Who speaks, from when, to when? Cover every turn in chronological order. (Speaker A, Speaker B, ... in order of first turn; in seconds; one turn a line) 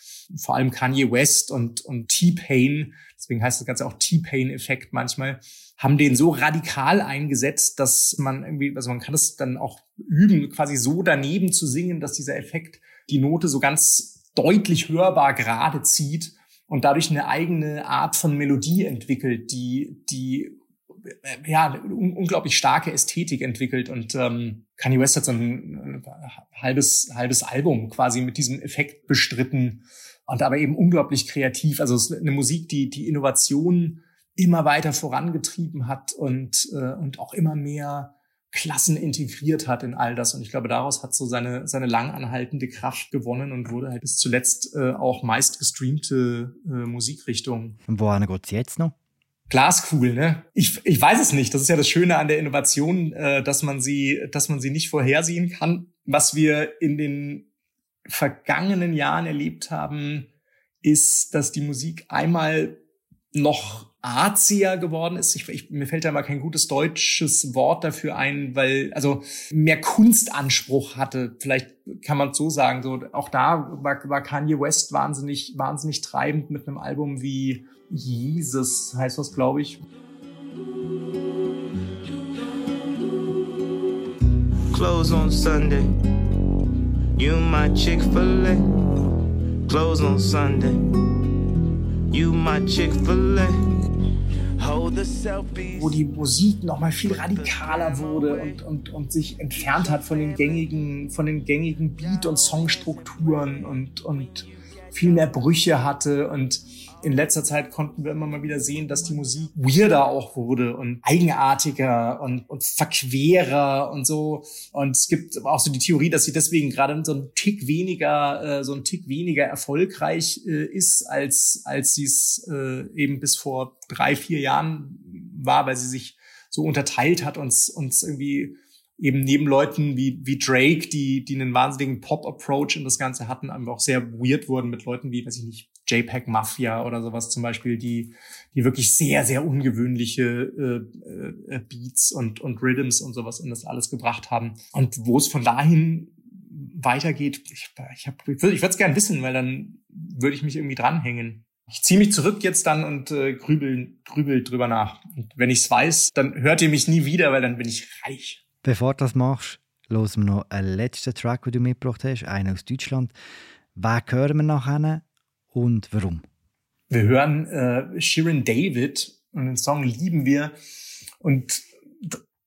Speaker A: 0.3-20.6
Speaker A: 21.1-47.8
Speaker B: 47.9-49.0
Speaker A: 49.5-57.5
Speaker A: 58.1-60.3
Speaker A: 60.8-62.8
Speaker A: 63.3-79.8
Speaker C: 84.7-85.9
Speaker C: 87.2-88.6
Speaker C: 89.7-90.8
Speaker C: 92.1-93.5
Speaker C: 94.6-96.0
Speaker A: 95.8-158.4
Speaker C: 97.0-97.7
Speaker B: 158.6-163.1
Speaker B: 163.8-166.2
Speaker A: 166.9-170.6
Speaker A: 171.2-172.2